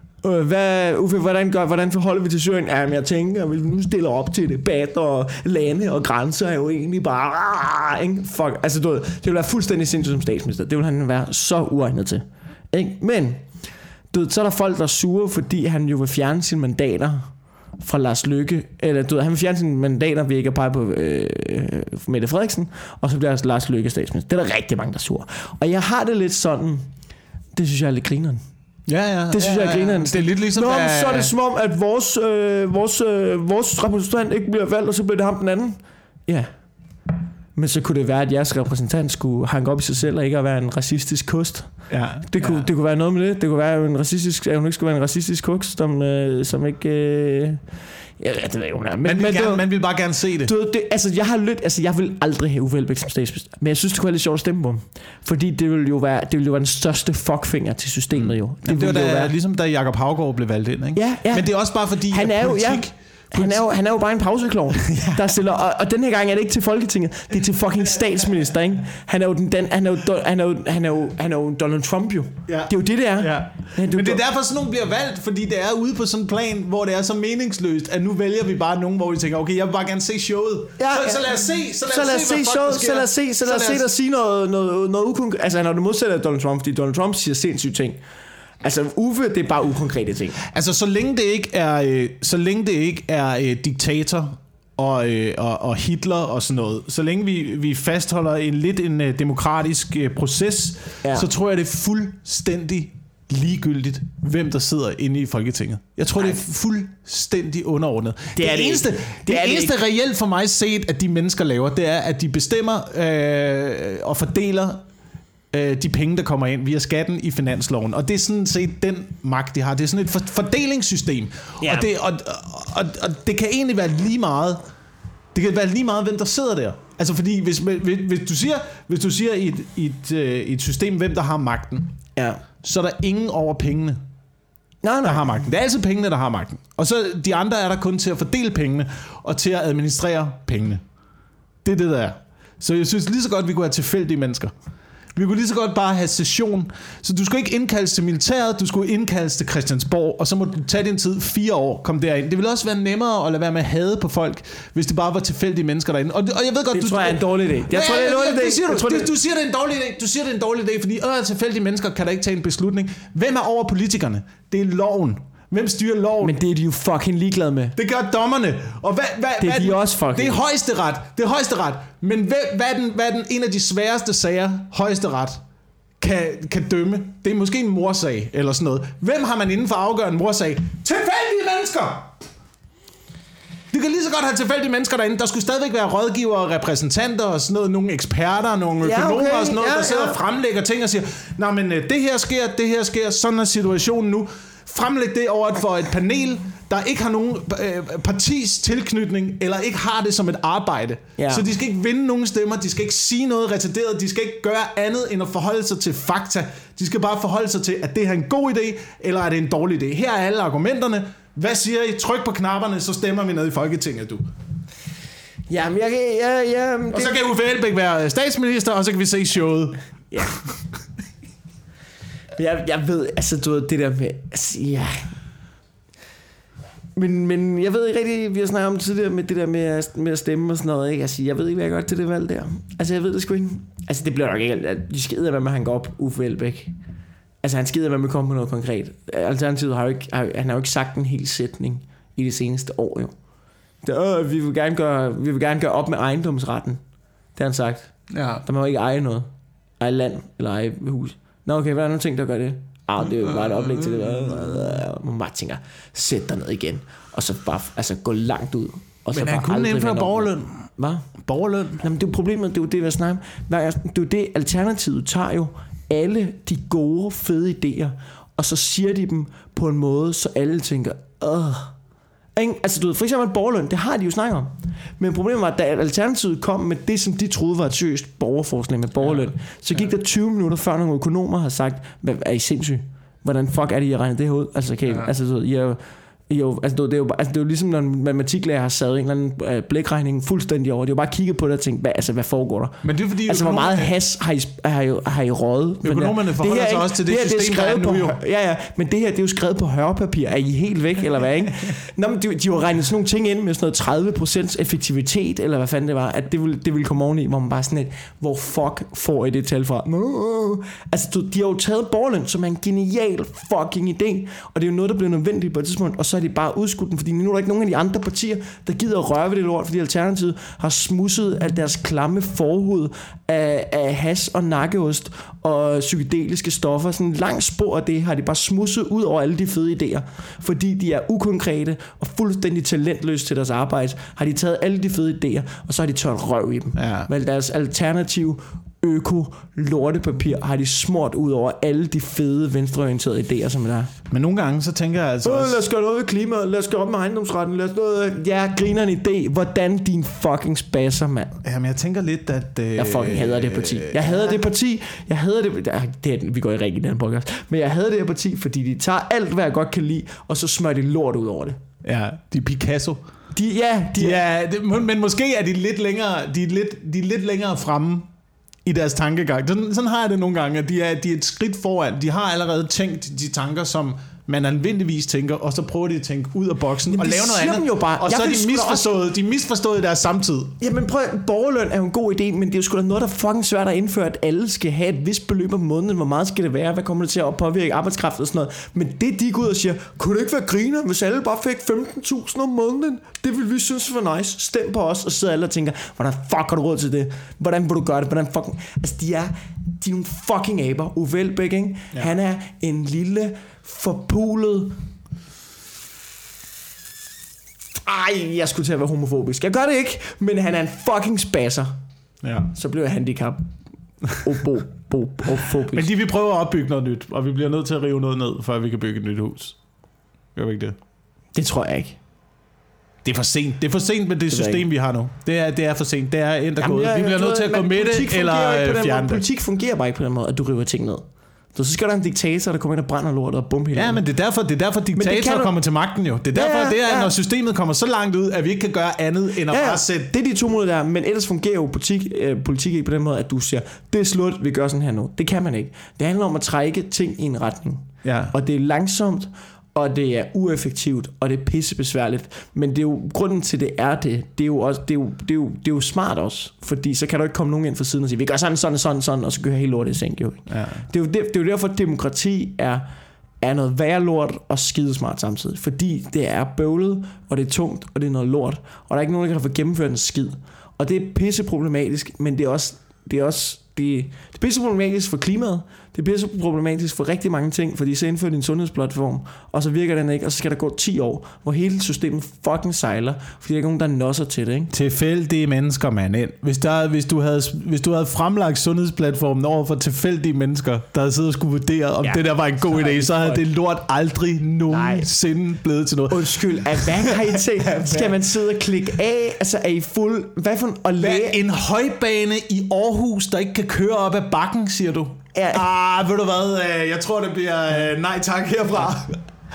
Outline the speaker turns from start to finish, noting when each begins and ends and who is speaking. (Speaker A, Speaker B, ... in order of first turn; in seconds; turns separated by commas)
Speaker A: 0.2-13.4, Speaker A: 14.1-26.9, Speaker A: 27.5-28.4, Speaker B: 28.9-31.3, Speaker A: 29.3-36.5, Speaker A: 37.5-47.6, Speaker B: 41.9-42.7, Speaker A: 48.2-49.7, Speaker B: 49.0-50.5, Speaker A: 50.5-59.4, Speaker B: 58.1-63.6, Speaker A: 61.0-74.2, Speaker B: 64.9-65.3, Speaker B: 72.5-83.9, Speaker A: 80.8-81.3, Speaker A: 81.8-88.0, Speaker A: 88.6-90.4, Speaker B: 90.4-114.8, Speaker A: 101.0-101.3, Speaker A: 108.4-109.8, Speaker B: 115.5-124.6, Speaker A: 121.6-121.9, Speaker B: 125.3-131.9, Speaker A: 132.2-132.4, Speaker B: 132.6-134.0, Speaker A: 134.8-135.3, Speaker B: 135.0-140.8, Speaker B: 141.6-144.5, Speaker B: 145.2-166.3, Speaker A: 156.7-159.1, Speaker A: 166.2-167.8, Speaker B: 167.8-175.4, Speaker A: 169.4-170.4, Speaker B: 176.0-182.1, Speaker B: 183.7-214.3, Speaker A: 188.8-190.2, Speaker A: 201.2-201.5, Speaker A: 215.5-217.2, Speaker B: 216.9-220.5, Speaker A: 222.4-225.1, Speaker A: 226.9-236.8, Speaker A: 237.4-243.1, Speaker A: 243.8-246.8, Speaker A: 247.4-247.9, Speaker B: 248.1-248.4, Speaker A: 248.4-249.3, Speaker A: 249.8-261.1, Speaker B: 253.0-254.7, Speaker B: 259.1-260.7, Speaker B: 261.2-261.8, Speaker A: 261.8-271.8, Speaker A: 272.4-343.9, Speaker B: 279.0-279.9, Speaker B: 292.8-293.9, Speaker B: 295.8-298.2, Speaker B: 336.8-337.1, Speaker B: 344.1-345.6, Speaker A: 345.2-351.4, Speaker B: 351.4-354.4, Speaker A: 352.8-361.6, Speaker B: 361.8-363.0, Speaker A: 363.4-364.2, Speaker B: 364.0-368.1, Speaker B: 368.7-380.6, Speaker A: 376.9-378.9, Speaker A: 380.6-404.8, Speaker A: 407.9-411.7, Speaker B: 412.2-412.5, Speaker A: 412.5-413.4, Speaker A: 414.1-415.9, Speaker B: 415.7-419.6, Speaker B: 420.4-420.8, Speaker A: 421.4-422.0, Speaker B: 423.0-429.2, Speaker A: 424.3-424.6, Speaker A: 426.6-434.0, Speaker B: 433.7-440.1, Speaker A: 434.9-435.5, Speaker A: 436.3-437.1, Speaker A: 439.5-462.9, Speaker B: 448.0-448.3, Speaker B: 460.5-460.9, Speaker A: 463.4-484.7, Speaker B: 484.7-497.2, Speaker A: 492.0-493.4, Speaker A: 494.7-495.1, Speaker A: 496.1-501.4, Speaker B: 497.8-498.1, Speaker B: 501.0-509.2, Speaker A: 505.3-505.6